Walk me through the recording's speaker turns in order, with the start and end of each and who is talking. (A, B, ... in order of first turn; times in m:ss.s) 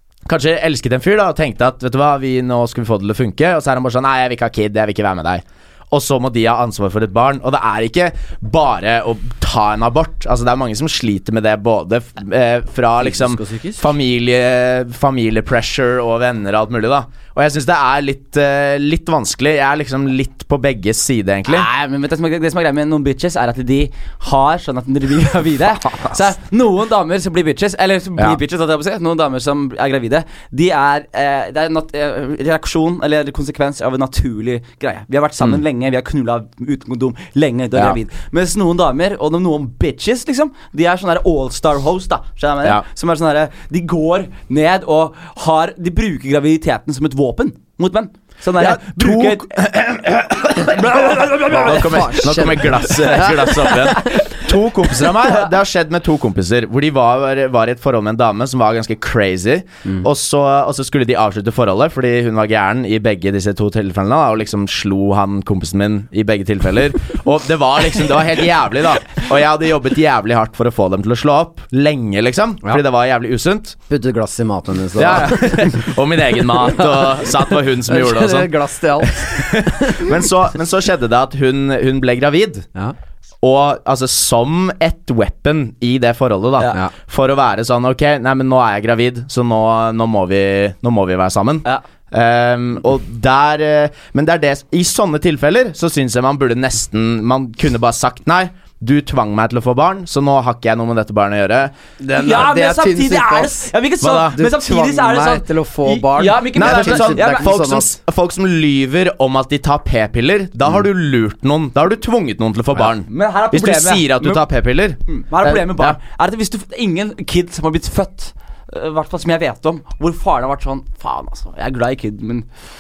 0:00.3-0:21.7 A
0:13.0-0:13.9 B
0:21.5-0:49.6 C
0:48.6-1:13.8 A
0:50.6-0:52.2 C
0:51.4-0:54.2 B
0:53.6-0:54.4 C
0:55.1-0:55.5 C
1:13.9-1:15.8 B
1:15.0-1:22.7 A
1:16.5-1:20.2 B
1:23.4-1:41.7 A
1:42.0-1:43.7 B
1:42.1-1:47.5 C
1:44.0-1:44.4 A
1:44.3-1:47.9 B
1:46.5-1:56.0 A
1:52.8-1:54.4 C
1:55.1-2:02.5 C